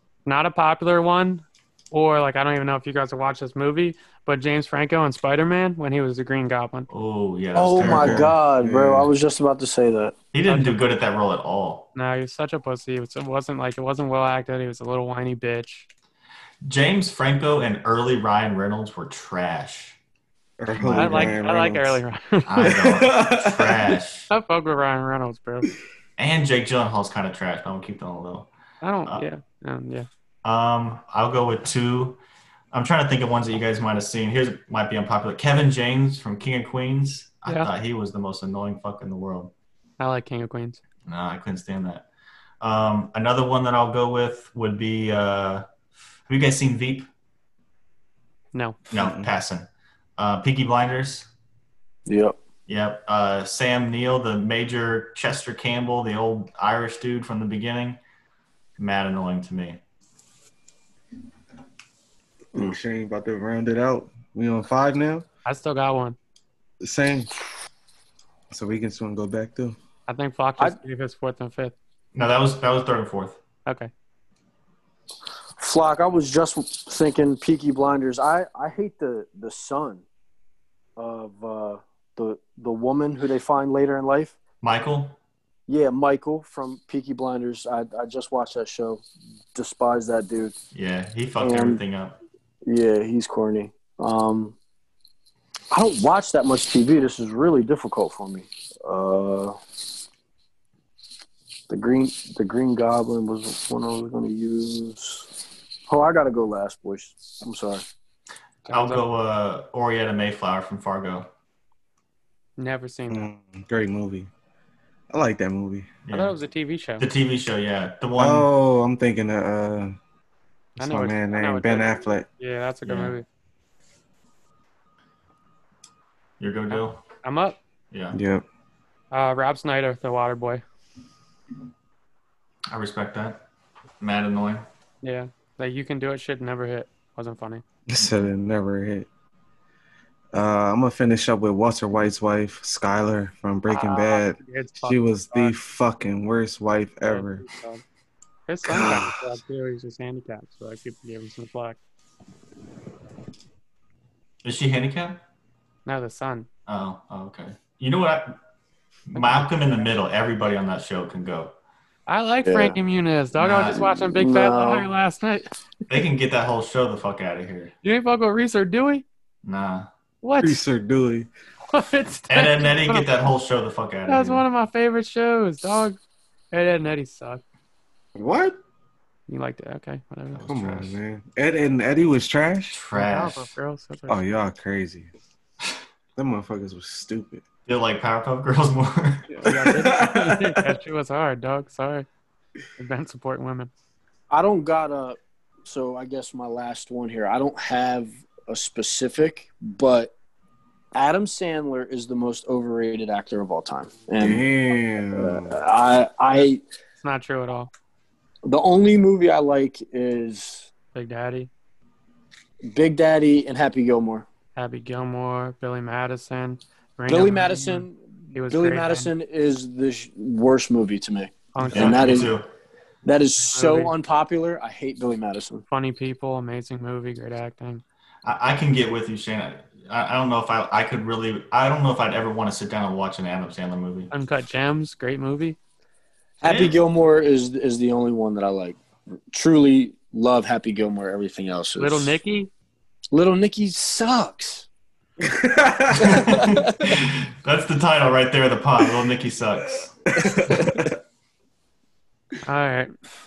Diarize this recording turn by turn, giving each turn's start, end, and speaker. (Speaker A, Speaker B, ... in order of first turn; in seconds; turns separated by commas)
Speaker A: 0.3-6.9, Speaker B: 6.9-8.3, Speaker C: 7.5-10.2, Speaker D: 7.8-9.1, Speaker B: 10.3-11.9, Speaker A: 10.5-10.8, Speaker A: 11.9-15.9, Speaker B: 16.6-20.0, Speaker D: 20.6-22.0, Speaker B: 20.7-21.4, Speaker A: 20.9-22.8, Speaker B: 22.5-24.3, Speaker D: 22.8-23.9, Speaker A: 24.3-25.7, Speaker B: 26.2-28.5, Speaker A: 28.8-30.1, Speaker B: 30.4-32.2, Speaker B: 32.7-39.5, Speaker A: 40.0-40.8, Speaker B: 41.1-42.1, Speaker B: 42.6-45.7, Speaker B: 46.3-47.1, Speaker A: 48.5-48.8, Speaker B: 48.9-49.7, Speaker D: 48.9-49.3, Speaker B: 50.2-51.3, Speaker C: 52.1-52.4, Speaker B: 52.7-58.0, Speaker B: 58.8-59.8, Speaker D: 62.5-65.3, Speaker A: 65.5-66.2, Speaker D: 66.8-67.3, Speaker D: 68.5-69.8, Speaker A: 70.1-71.8, Speaker B: 72.1-73.4, Speaker A: 73.7-73.9, Speaker C: 75.6-80.0, Speaker C: 81.0-84.4, Speaker B: 84.6-85.2, Speaker C: 85.7-90.5, Speaker B: 90.7-92.2, Speaker C: 91.4-91.8, Speaker C: 92.7-94.6, Speaker C: 95.7-99.6, Speaker C: 101.7-107.8, Speaker A: 108.7-109.1, Speaker B: 108.7-111.3, Speaker A: 112.6-113.3, Speaker D: 113.1-114.3, Speaker D: 115.1-115.9, Speaker B: 116.1-116.4, Speaker A: 116.1-117.1, Speaker B: 117.0-118.5, Speaker D: 118.2-120.0, Speaker A: 120.8-123.3, Speaker D: 120.8-122.3, Speaker B: 122.8-123.2, Speaker B: 126.4-127.0, Speaker A: 126.7-127.6, Speaker B: 127.9-128.2, Speaker D: 128.1-128.4, Speaker A: 129.1-130.6, Speaker B: 132.7-133.4, Speaker B: 134.0-134.7, Speaker A: 135.0-137.6, Speaker D: 137.9-139.1, Speaker D: 140.3-147.4, Speaker A: 143.7-145.6, Speaker A: 147.0-147.8, Speaker A: 148.5-151.8, Speaker D: 148.6-149.2, Speaker B: 154.4-155.2, Speaker A: 155.9-156.5, Speaker B: 156.7-158.4, Speaker B: 159.1-161.5, Speaker A: 159.2-159.5, Speaker A: 162.1-165.6, Speaker C: 162.4-162.8, Speaker B: 163.4-163.9, Speaker C: 163.9-164.9, Speaker B: 165.9-167.7, Speaker A: 167.8-169.1, Speaker B: 169.4-169.9, Speaker A: 170.2-170.6, Speaker D: 170.4-171.3, Speaker A: 171.7-173.1, Speaker B: 172.3-174.4, Speaker A: 174.1-176.0, Speaker A: 176.5-177.4, Speaker D: 178.2-178.6, Speaker A: 179.3-180.9, Speaker B: 180.3-180.9, Speaker D: 180.5-182.8, Speaker B: 182.7-183.5, Speaker A: 182.9-184.3, Speaker D: 184.1-185.1, Speaker D: 186.2-187.4, Speaker B: 187.7-189.4, Speaker A: 189.4-192.1, Speaker D: 189.4-190.7, Speaker A: 192.8-193.7, Speaker C: 194.3-200.1, Speaker C: 200.9-204.4, Speaker D: 204.2-205.6, Speaker C: 205.2-206.6, Speaker A: 207.0-207.7, Speaker C: 208.4-210.7, Speaker A: 210.9-211.5, Speaker C: 212.7-214.3, Speaker A: 214.6-219.1, Speaker C: 217.1-222.3, Speaker A: 221.5-222.2, Speaker B: 221.7-222.5, Speaker C: 223.1-225.6, Speaker A: 223.5-223.9, Speaker A: 225.7-227.8, Speaker B: 228.2-234.1, Speaker A: 234.1-235.6, Speaker C: 236.4-238.8, Speaker B: 236.4-236.8, Speaker C: 239.3-242.1, Speaker A: 241.8-242.5, Speaker C: 243.1-244.7, Speaker D: 245.2-246.3, Speaker B: 245.9-250.2, Speaker C: 246.2-246.9, Speaker D: 250.1-251.0, Speaker C: 250.2-250.9, Speaker A: 252.4-252.9